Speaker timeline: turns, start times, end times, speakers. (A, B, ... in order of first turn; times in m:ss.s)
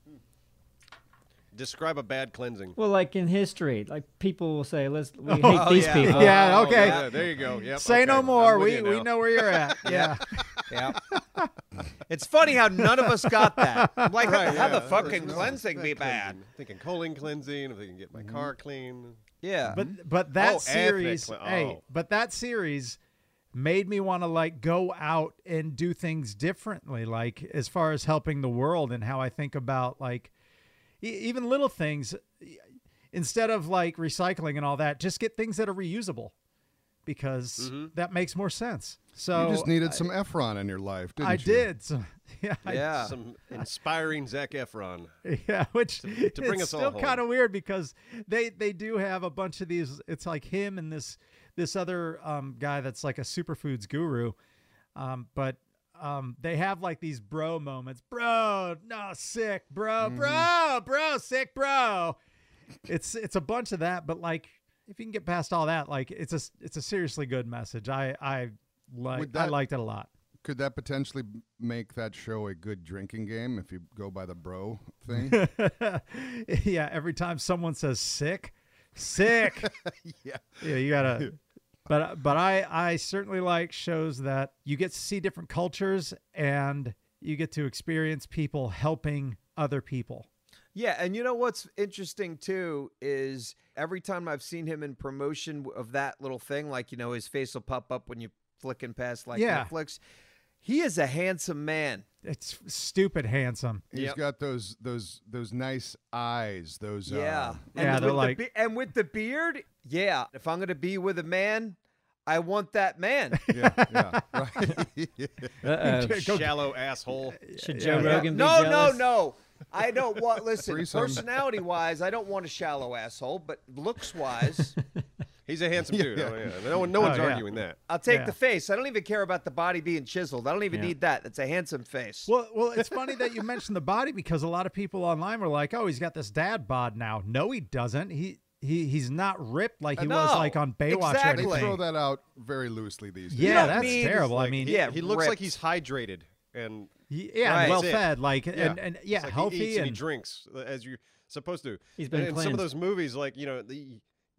0:01.5-0:02.8 A
0:02.8-0:06.4 B
0:05.3-0:11.5 C
0:05.4-0:07.5 D
0:06.1-0:09.9 A
0:09.8-0:11.0 D
0:12.1-0:16.4 D
0:13.0-0:14.1 C
0:14.2-0:19.2 A
0:14.5-0:15.6 E
0:18.2-0:18.5 E
0:19.4-0:19.9 D
0:19.7-0:23.0 C
0:20.3-0:21.8 A
0:23.5-0:30.3 C
0:31.0-0:36.3 C
0:37.1-0:40.0 C
0:37.6-0:37.9 A
0:39.3-0:41.7 E
0:41.2-0:43.1 C
0:42.6-0:43.1 D
0:43.0-0:45.1 A
0:45.2-0:54.4 C
0:46.0-0:47.2 A
0:55.0-1:02.2 C
1:00.0-1:00.5 E
1:02.9-1:10.1 C
1:09.1-1:09.6 E
1:10.4-1:15.4 E
1:15.1-1:19.7 C
1:19.6-1:21.3 E
1:20.6-1:21.4 C
1:21.9-1:30.3 C
1:30.8-1:40.0 D
1:39.4-1:39.7 C
1:40.6-1:42.1 D
1:42.2-1:43.9 C
1:43.9-1:47.6 E
1:43.9-1:44.2 A
1:47.1-1:53.5 D
1:47.8-1:48.4 C
1:53.3-1:54.3 C
1:53.5-1:55.5 E
1:55.6-1:56.3 B
1:55.8-1:56.8 C
1:56.1-1:57.4 A
1:57.3-1:58.4 C
1:57.5-1:59.2 B
1:58.0-2:04.8 D
2:00.6-2:01.2 E
2:05.5-2:07.8 A
2:05.9-2:07.0 E
2:07.0-2:07.5 C
2:07.9-2:12.3 D
2:08.1-2:08.4 C
2:12.3-2:21.8 C
2:20.0-2:21.8 D
2:21.3-2:24.0 E
2:23.3-2:24.8 C
2:23.4-2:25.4 D
2:23.4-2:26.9 A
2:27.1-2:30.0 C
2:27.4-2:27.9 D
2:27.5-2:34.0 A
2:32.0-2:32.7 B